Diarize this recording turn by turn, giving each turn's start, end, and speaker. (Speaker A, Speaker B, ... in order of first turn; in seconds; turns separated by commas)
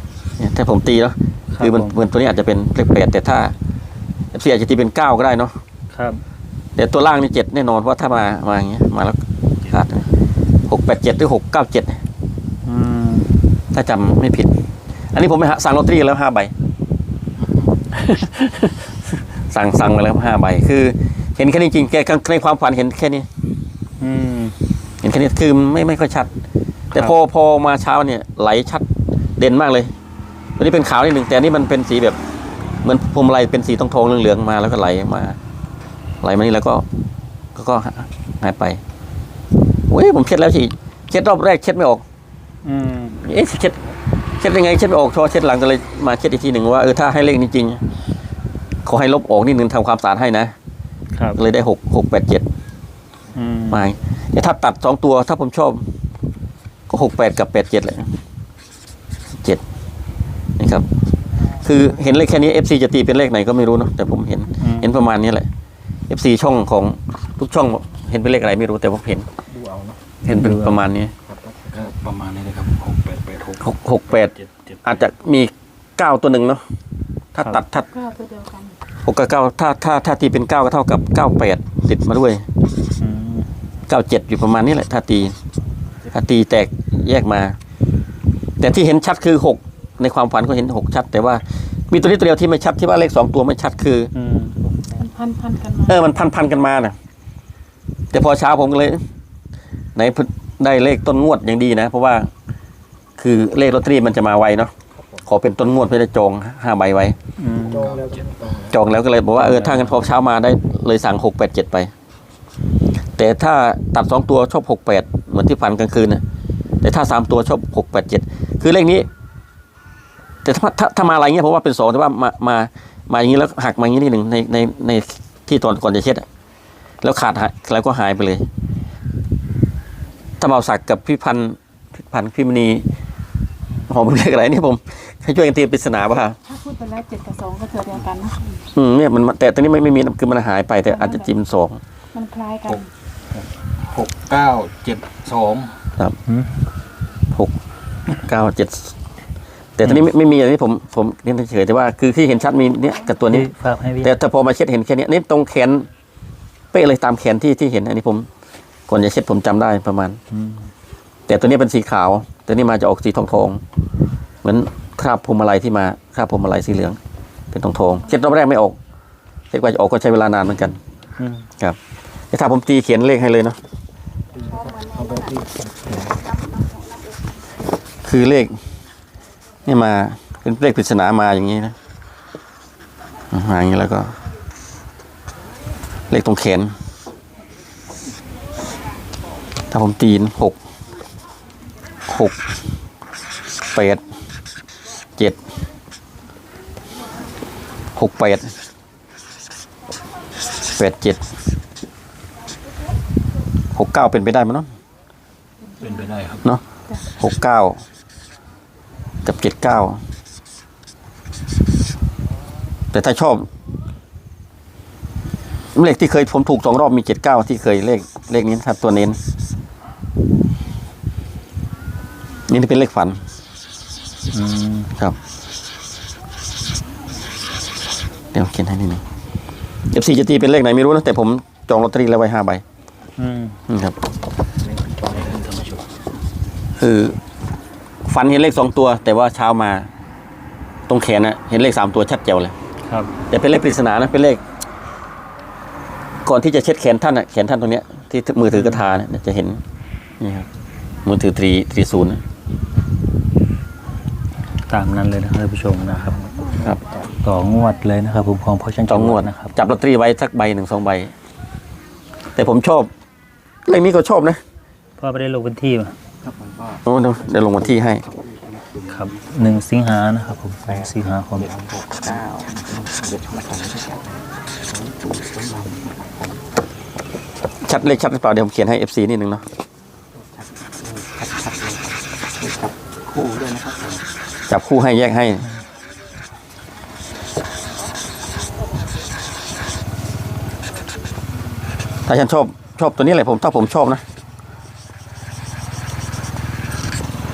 Speaker A: 0.4-3.5, Speaker B: 1.5-1.9, Speaker A: 4.3-5.5, Speaker B: 5.9-6.2, Speaker A: 6.8-10.1, Speaker A: 10.7-12.0, Speaker B: 12.6-13.3, Speaker A: 13.7-14.5, Speaker A: 15.1-16.5, Speaker A: 17.9-18.9, Speaker A: 19.5-23.2, Speaker B: 24.0-24.6, Speaker A: 25.0-26.3, Speaker A: 26.9-28.8, Speaker A: 29.4-29.9, Speaker A: 30.6-32.2, Speaker A: 32.8-35.4, Speaker A: 36.2-36.8, Speaker A: 37.5-38.8, Speaker A: 39.9-42.0, Speaker B: 42.6-43.2, Speaker A: 43.2-43.8, Speaker A: 44.4-47.8, Speaker A: 48.9-50.5, Speaker B: 51.1-51.4, Speaker A: 51.4-52.5, Speaker B: 53.3-53.8, Speaker A: 53.7-55.8, Speaker A: 56.9-58.1, Speaker A: 60.6-60.9, Speaker A: 61.6-65.5, Speaker B: 64.6-64.9, Speaker A: 66.1-69.3, Speaker C: 69.5-70.0, Speaker A: 70.2-71.1, Speaker B: 70.3-70.8, Speaker C: 71.2-71.9, Speaker D: 71.7-75.0, Speaker A: 73.6-76.6, Speaker A: 77.3-77.9, Speaker E: 77.8-78.7, Speaker A: 79.0-82.5, Speaker B: 83.0-83.5, Speaker A: 83.9-85.4, Speaker A: 86.1-87.6, Speaker A: 88.6-94.1, Speaker B: 94.1-94.6, Speaker E: 95.0-96.0, Speaker A: 95.9-97.0, Speaker A: 98.1-99.0, Speaker A: 99.9-102.3, Speaker A: 103.2-104.7, Speaker C: 105.0-105.2, Speaker A: 105.2-107.2, Speaker B: 107.4-108.0, Speaker C: 107.5-108.8, Speaker A: 108.7-111.9, Speaker B: 109.4-110.0, Speaker A: 113.2-116.2, Speaker A: 116.8-119.1, Speaker A: 120.4-126.3, Speaker A: 127.0-128.4, Speaker A: 130.4-132.8, Speaker A: 133.9-136.4, Speaker E: 136.4-138.5, Speaker A: 138.7-141.8, Speaker E: 140.9-141.4, Speaker E: 142.1-142.9, Speaker D: 142.7-145.8, Speaker A: 148.2-148.9, Speaker A: 149.8-153.5, Speaker B: 153.3-154.1, Speaker A: 154.0-155.9, Speaker A: 156.7-158.3, Speaker A: 158.9-160.2, Speaker B: 160.3-160.7, Speaker A: 161.3-163.6, Speaker A: 164.4-167.0, Speaker A: 167.5-168.8, Speaker A: 169.5-170.8, Speaker B: 171.2-171.5, Speaker A: 172.3-173.6, Speaker C: 174.3-176.4, Speaker A: 178.0-178.6, Speaker A: 179.7-181.8, Speaker A: 183.3-184.2, Speaker A: 186.1-186.7, Speaker A: 189.7-190.6, Speaker A: 192.1-192.4, Speaker A: 193.7-194.0, Speaker A: 197.9-198.5, Speaker A: 200.8-201.2, Speaker A: 203.7-204.7, Speaker E: 205.8-206.2, Speaker D: 205.8-206.4, Speaker E: 206.9-207.1, Speaker A: 207.2-207.8, Speaker A: 209.2-210.0, Speaker A: 212.9-213.5, Speaker A: 215.7-219.2, Speaker A: 222.5-223.2, Speaker B: 224.3-224.9, Speaker A: 228.3-229.0, Speaker A: 229.9-232.6, Speaker B: 233.2-233.6, Speaker A: 233.7-233.9, Speaker C: 234.6-235.8, Speaker D: 235.2-235.7, Speaker A: 236.8-237.2, Speaker A: 238.0-239.9, Speaker A: 240.9-242.5, Speaker B: 242.9-243.1, Speaker A: 243.3-244.4, Speaker A: 246.2-249.6, Speaker B: 248.5-248.9, Speaker A: 250.2-250.5, Speaker A: 251.0-252.2, Speaker B: 254.7-256.2, Speaker C: 255.8-257.1, Speaker B: 257.2-259.5, Speaker A: 258.9-261.1, Speaker A: 262.4-262.9, Speaker A: 263.7-264.4, Speaker B: 265.0-265.9, Speaker C: 266.2-266.8, Speaker A: 266.8-268.0, Speaker C: 267.4-269.1, Speaker D: 267.6-268.9, Speaker B: 268.9-271.5, Speaker C: 270.6-276.4, Speaker D: 271.4-273.6, Speaker A: 277.6-279.4, Speaker C: 280.2-281.8, Speaker C: 282.4-283.9, Speaker D: 283.1-283.9, Speaker A: 284.5-285.5, Speaker A: 292.1-294.0